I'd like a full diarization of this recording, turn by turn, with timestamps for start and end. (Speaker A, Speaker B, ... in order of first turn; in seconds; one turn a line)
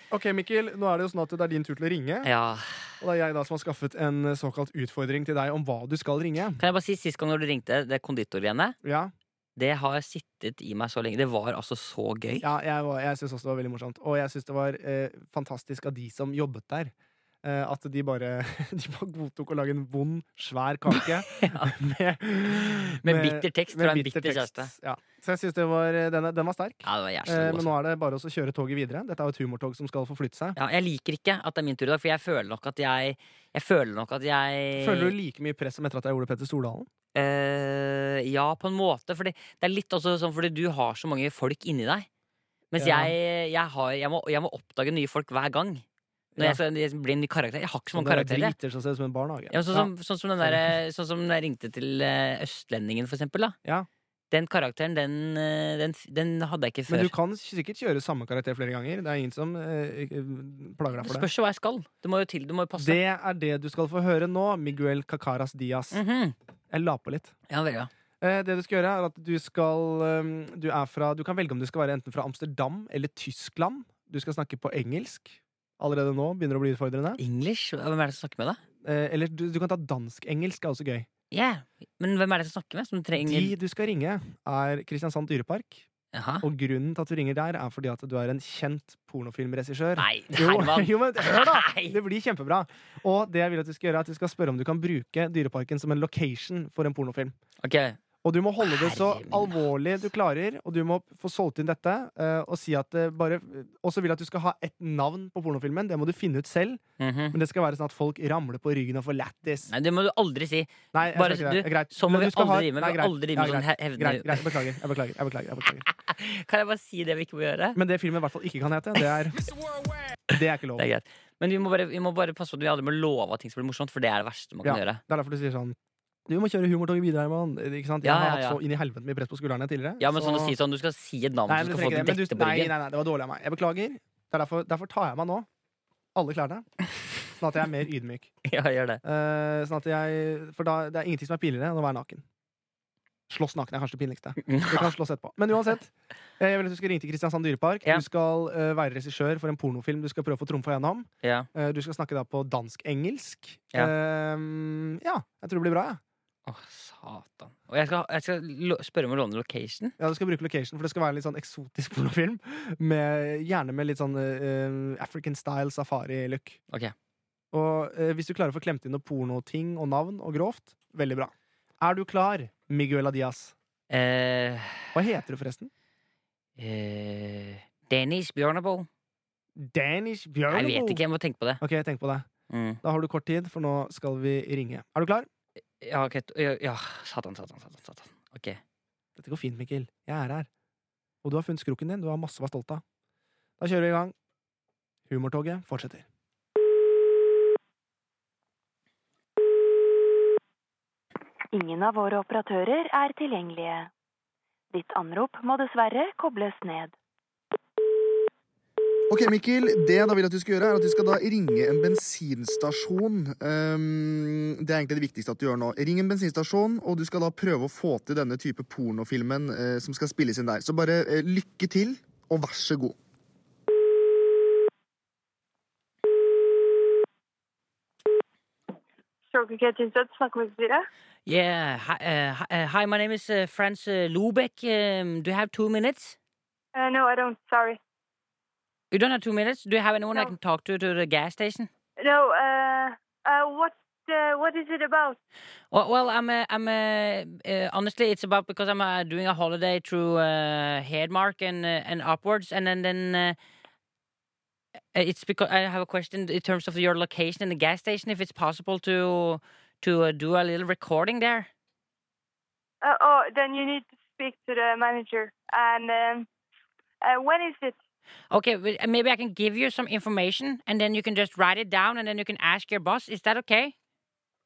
Speaker A: 0.1-2.3
Speaker B: 2.2-2.8
Speaker A: 3.0-6.6
Speaker B: 6.6-8.8
Speaker A: 8.8-9.1
Speaker B: 9.6-12.5
Speaker A: 12.4-30.6
Speaker B: 21.4-21.7
Speaker B: 22.9-24.7
Speaker B: 26.9-27.7
Speaker B: 30.6-35.1
Speaker A: 34.8-36.9
Speaker B: 37.1-42.1
Speaker B: 42.7-45.8
Speaker A: 42.8-43.1
Speaker A: 46.4-46.6
Speaker B: 46.4-48.5
Speaker A: 47.9-49.9
Speaker B: 49.5-53.6
Speaker A: 50.4-50.8
Speaker B: 54.3-57.1
Speaker A: 56.9-61.3
Speaker B: 61.0-63.0
Speaker A: 62.8-66.0
Speaker B: 65.9-66.3
Speaker A: 66.7-67.3
Speaker B: 67.5-67.9
Speaker A: 68.2-77.2
Speaker B: 77.2-78.6
Speaker A: 78.8-81.1
Speaker B: 81.3-83.5
Speaker A: 83.2-85.8
Speaker B: 86.1-86.5
Speaker A: 86.4-97.3
Speaker B: 90.0-92.0
Speaker B: 97.6-98.0
Speaker A: 98.2-106.8
Speaker B: 98.6-99.6
Speaker B: 107.0-107.4
Speaker A: 107.3-109.7
Speaker B: 109.7-114.5
Speaker A: 110.9-115.9
Speaker B: 115.9-117.8
Speaker A: 117.8-119.4
Speaker A: 120.3-120.9
Speaker B: 120.8-125.0
Speaker A: 124.6-125.8
Speaker A: 126.3-130.6
Speaker B: 128.0-128.6
Speaker B: 130.0-132.7
Speaker A: 131.5-135.5
Speaker A: 136.2-136.7
Speaker A: 137.3-138.3
Speaker B: 138.4-139.0
Speaker A: 139.0-142.2
Speaker A: 143.3-156.0
Speaker B: 144.4-144.9
Speaker B: 151.2-151.5
Speaker B: 156.5-159.9
Speaker A: 160.0-166.6
Speaker A: 167.5-173.5
Speaker B: 173.9-174.9
Speaker A: 174.9-175.7
Speaker B: 176.6-178.9
Speaker A: 179.6-181.0
Speaker B: 180.5-181.6
Speaker A: 181.6-182.3
Speaker B: 182.5-182.8
Speaker A: 182.8-185.3
Speaker B: 185.8-188.6
Speaker A: 189.2-190.5
Speaker A: 191.2-192.8
Speaker A: 193.6-194.2
Speaker A: 195.1-196.1
Speaker C: 201.5-203.9
Speaker C: 204.7-206.9
Speaker D: 209.1-222.9
Speaker E: 229.3-230.9
Speaker B: 231.3-236.2
Speaker E: 236.8-237.8
Speaker B: 238.9-241.7
Speaker E: 242.0-245.2
Speaker B: 245.7-253.4
Speaker B: 254.9-261.5
Speaker E: 262.8-266.3
Speaker E: 267.0-267.8
Speaker B: 268.3-273.8